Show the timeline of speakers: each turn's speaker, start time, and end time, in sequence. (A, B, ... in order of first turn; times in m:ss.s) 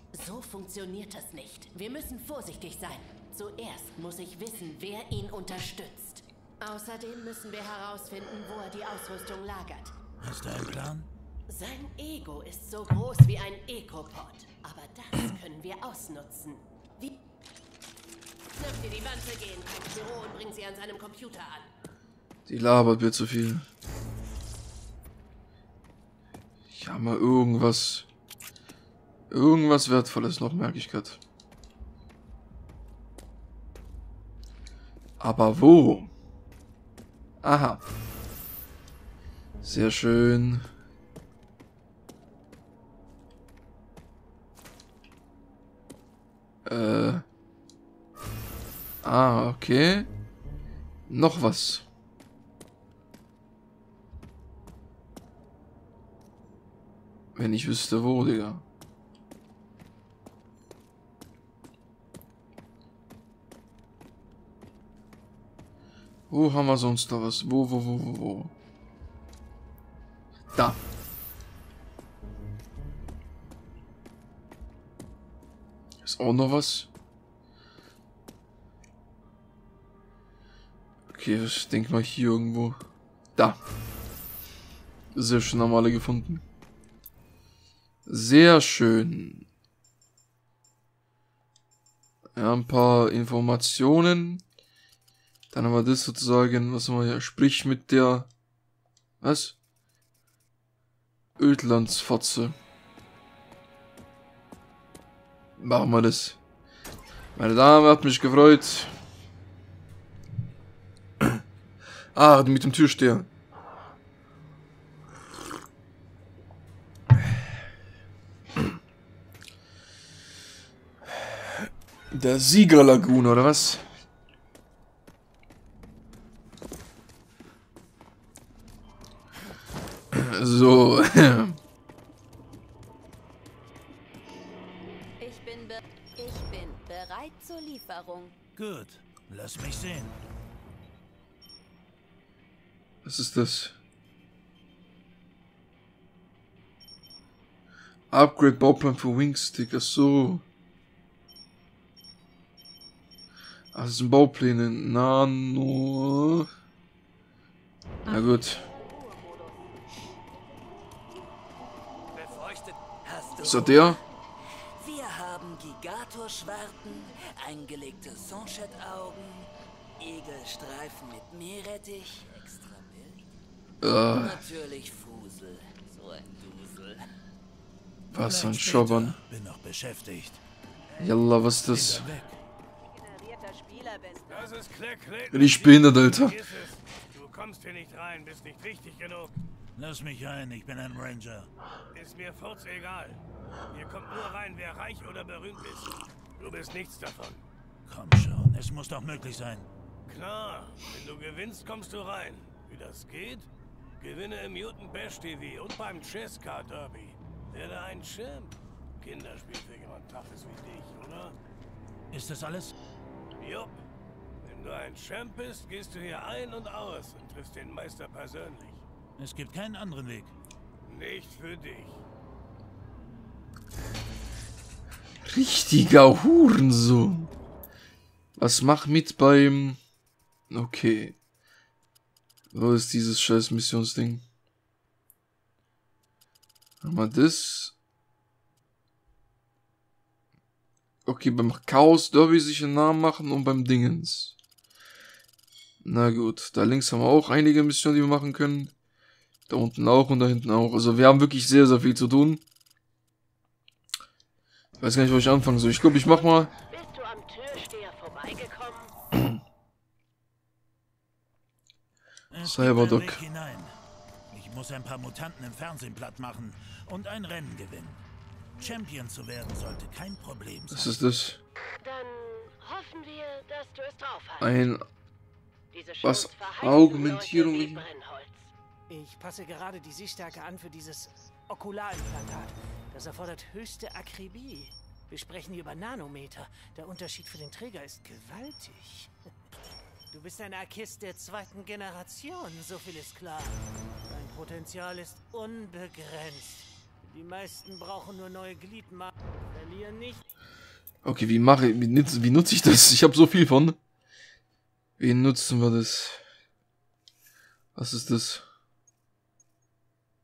0:00.1-0:10.0 A
0:10.2-0:11.1 B
0:11.5-0:17.2 A
0:18.5-0:21.7 A
0:22.5-0:23.7 C
0:26.7-0:28.1 C
0:29.3-0:31.2 C
0:35.2-0:36.1 C
0:37.4-0:37.8 C
0:39.6-0:40.6 C
0:46.6-0:47.2 C
0:49.0-0:50.1 C
0:51.1-0:51.8 C
0:57.4-0:58.6 C
1:06.3-1:08.5 C
1:10.5-1:10.8 C
1:16.0-1:16.9 C
1:21.1-1:22.8 C
1:25.1-1:26.4 C
1:28.1-1:29.4 C
1:32.4-1:34.4 C
1:35.5-1:38.3 C
1:39.2-1:39.6 C
1:41.4-1:42.6 C
1:45.6-1:46.4 C
1:47.4-1:48.9 C
1:52.2-1:53.3 C
2:01.1-2:03.8 C
2:10.1-2:11.6 C
2:15.2-2:18.4 D
2:18.6-2:20.1 B
2:23.0-2:23.8 C
2:28.1-2:30.4 C
2:33.7-2:36.5 C
2:38.1-2:38.6 C
2:38.1-2:39.6 D
2:42.2-2:42.8 E
2:43.0-2:44.0 F
2:43.4-2:44.0 C
2:44.8-2:53.2 F
2:53.8-2:54.5 C
2:54.1-2:57.1 F
2:58.1-2:59.2 C
2:58.2-3:00.4 B
3:01.0-3:02.1 C
3:01.7-3:02.4 B
3:02.8-3:04.5 D
3:04.3-3:09.4 E
3:05.3-3:06.4 C
3:09.8-3:11.5 B
3:11.9-3:17.4 E
3:17.9-3:19.7 B
3:20.1-3:31.4 E
3:32.1-3:32.7 B
3:33.4-3:33.8 E
3:34.4-3:38.8 E
3:39.2-3:40.3 B
3:40.9-3:42.0 E
3:45.2-3:47.3 C
3:48.4-3:49.8 C
3:50.5-3:51.2 C
3:52.5-3:54.2 C
3:56.8-3:57.7 C
4:01.0-4:04.4 C
4:05.8-4:08.7 C
4:09.5-4:12.4 C
4:14.8-4:16.5 C
4:16.0-4:18.9 A
4:22.3-4:23.7 B
4:22.4-4:23.2 C
4:24.3-4:28.0 B
4:28.6-4:31.0 B
4:30.7-4:31.4 C
4:31.8-4:34.5 A
4:34.4-4:34.8 C
4:35.7-4:38.5 A
4:36.0-4:37.8 C
4:38.9-4:49.1 G
4:50.1-5:00.2 G
5:01.0-5:03.8 C
5:05.0-5:06.2 C
5:07.8-5:08.4 C